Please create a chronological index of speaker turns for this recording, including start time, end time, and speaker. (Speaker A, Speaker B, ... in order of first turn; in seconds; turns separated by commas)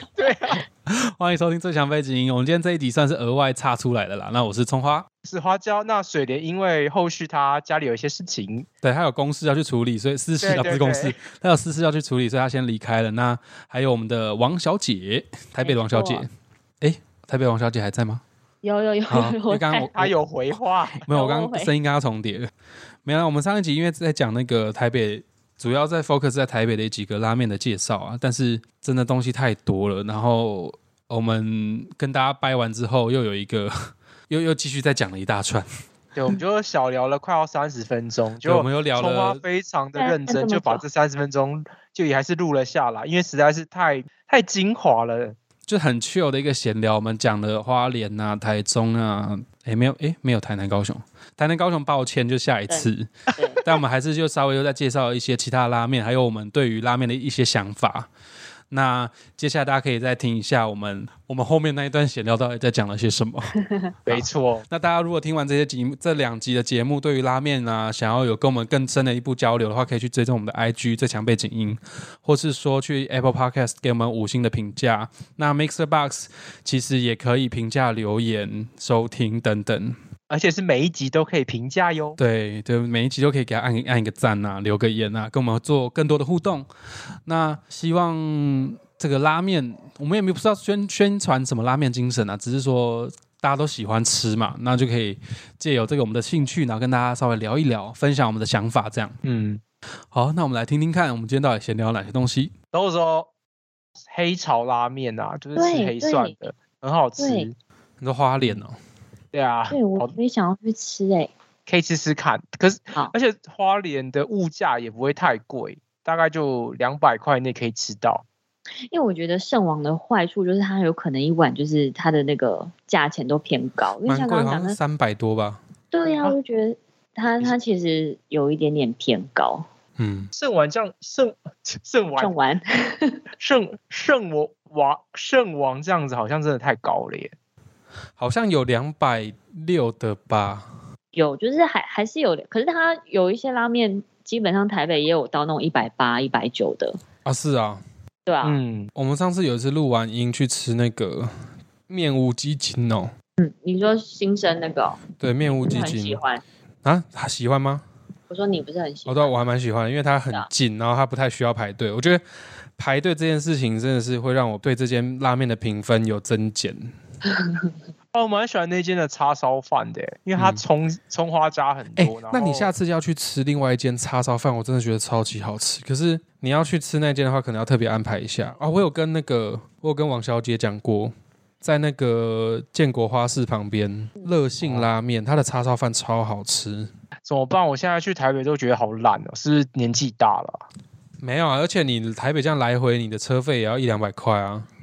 Speaker A: 0.1-0.6, Speaker B: 0.8-5.0, Speaker A: 5.2-8.7, Speaker B: 8.8-16.3, Speaker A: 10.4-11.2, Speaker C: 15.6-16.2, Speaker B: 16.8-18.2, Speaker C: 18.6-19.9, Speaker B: 19.1-20.1, Speaker A: 19.9-21.0, Speaker B: 21.0-22.5, Speaker C: 21.1-21.7, Speaker B: 23.0-35.7, Speaker A: 36.1-45.4, Speaker B: 38.4-39.4, Speaker C: 40.0-40.8, Speaker B: 45.7-58.1, Speaker C: 52.7-53.6, Speaker B: 58.7-63.5, Speaker A: 64.0-64.6, Speaker B: 64.1-80.0, Speaker A: 80.3-82.2, Speaker B: 82.2-86.7, Speaker B: 87.2-99.2, Speaker A: 99.2-99.6, Speaker B: 100.1-102.5, Speaker A: 102.7-103.3, Speaker A: 104.1-107.5, Speaker C: 105.5-106.3, Speaker C: 107.2-107.5, Speaker B: 108.0-108.8, Speaker A: 109.3-110.2, Speaker C: 109.7-111.3, Speaker A: 111.7-118.2, Speaker C: 118.9-124.8, Speaker B: 124.0-125.6, Speaker C: 125.9-129.7, Speaker B: 130.0-130.3, Speaker A: 130.3-132.3, Speaker C: 132.2-133.2, Speaker A: 133.4-137.3, Speaker B: 138.2-140.7, Speaker C: 141.1-147.0, Speaker B: 147.2-147.8, Speaker C: 148.2-148.6, Speaker A: 148.4-148.9, Speaker B: 148.9-151.3, Speaker B: 151.9-153.1, Speaker C: 153.4-156.4, Speaker B: 155.2-156.2, Speaker B: 156.8-157.8, Speaker C: 158.3-159.3, Speaker B: 159.1-162.2, Speaker B: 162.8-166.9, Speaker C: 167.3-167.7, Speaker A: 168.1-172.7, Speaker B: 170.3-170.6, Speaker B: 171.9-186.9, Speaker A: 184.6-184.9, Speaker A: 187.2-190.6, Speaker B: 191.2-194.7